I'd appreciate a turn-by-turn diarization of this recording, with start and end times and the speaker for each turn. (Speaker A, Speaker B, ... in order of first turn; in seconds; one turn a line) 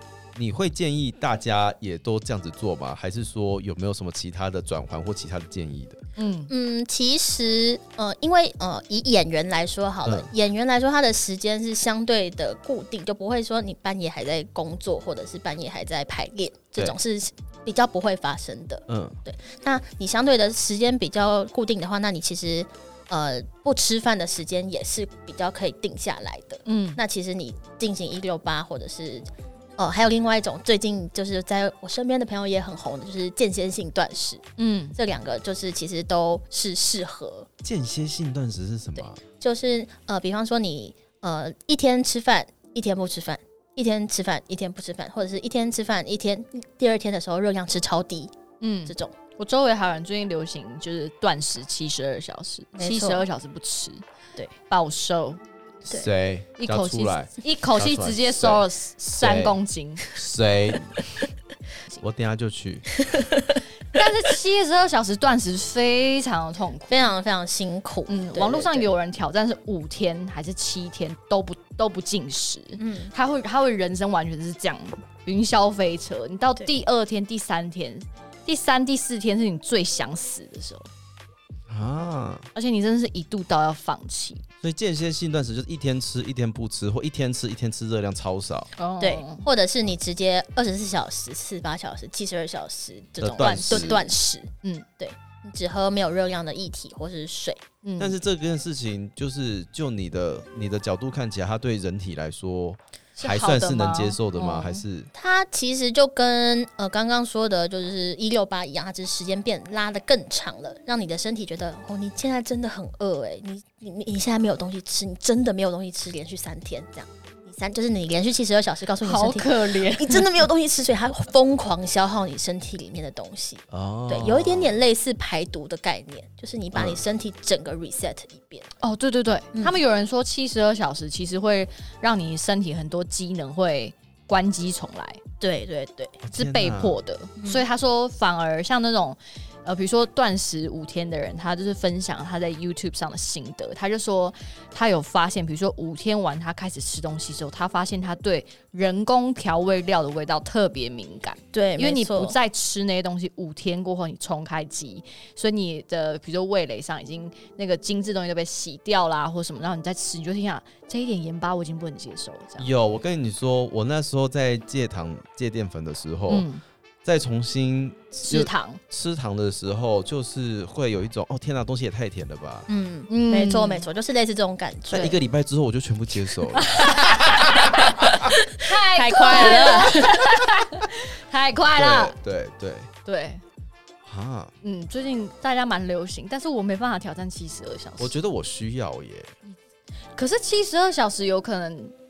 Speaker A: 0.3-6.0
Speaker B: 6.2-6.5
Speaker C: 6.5-34.4
Speaker A: 10.0-10.3
Speaker A: 18.9-19.2
Speaker B: 26.6-27.0
Speaker B: 34.6-35.0
Speaker C: 35.0-37.5
Speaker A: 37.6-39.2
Speaker C: 39.0-48.3
Speaker B: 48.6-54.0
Speaker C: 48.9-49.1
Speaker C: 52.8-53.2
Speaker B: 54.7-55.4
Speaker A: 55.9-59.6
Speaker B: 56.6-60.0
Speaker A: 60.1-60.9
Speaker A: 62.0-63.0
Speaker C: 63.1-63.4
Speaker B: 63.9-67.0
Speaker C: 66.9-68.9
Speaker B: 68.1-80.9
Speaker C: 72.8-73.1
Speaker A: 81.7-82.5
Speaker B: 82.5-84.4
Speaker A: 84.6-88.7
Speaker B: 88.8-89.4
Speaker C: 89.0-97.6
Speaker A: 93.2-94.0
Speaker B: 93.4-94.0
Speaker B: 97.8-98.2
Speaker A: 98.0-105.1
Speaker B: 103.2-104.8
Speaker C: 105.1-128.7
Speaker B: 119.0-120.2
Speaker A: 123.7-124.7
Speaker A: 126.7-127.0
Speaker B: 128.8-135.2
Speaker C: 135.4-136.2
Speaker A: 136.2-137.0
Speaker B: 136.3-162.7
Speaker C: 137.4-137.6
Speaker C: 151.5-152.3
Speaker A: 162.6-166.5
Speaker B: 166.3-166.6
Speaker A: 167.0-172.7
Speaker B: 168.2-168.8
Speaker C: 172.7-175.1
Speaker B: 173.1-173.9
Speaker A: 174.9-178.3
Speaker B: 176.6-177.8
Speaker C: 178.4-180.5
Speaker B: 178.5-182.1
Speaker A: 181.7-182.9
Speaker B: 183.0-183.4
Speaker A: 184.0-184.5
Speaker B: 184.6-188.1
Speaker A: 188.0-189.3
Speaker B: 190.2-191.9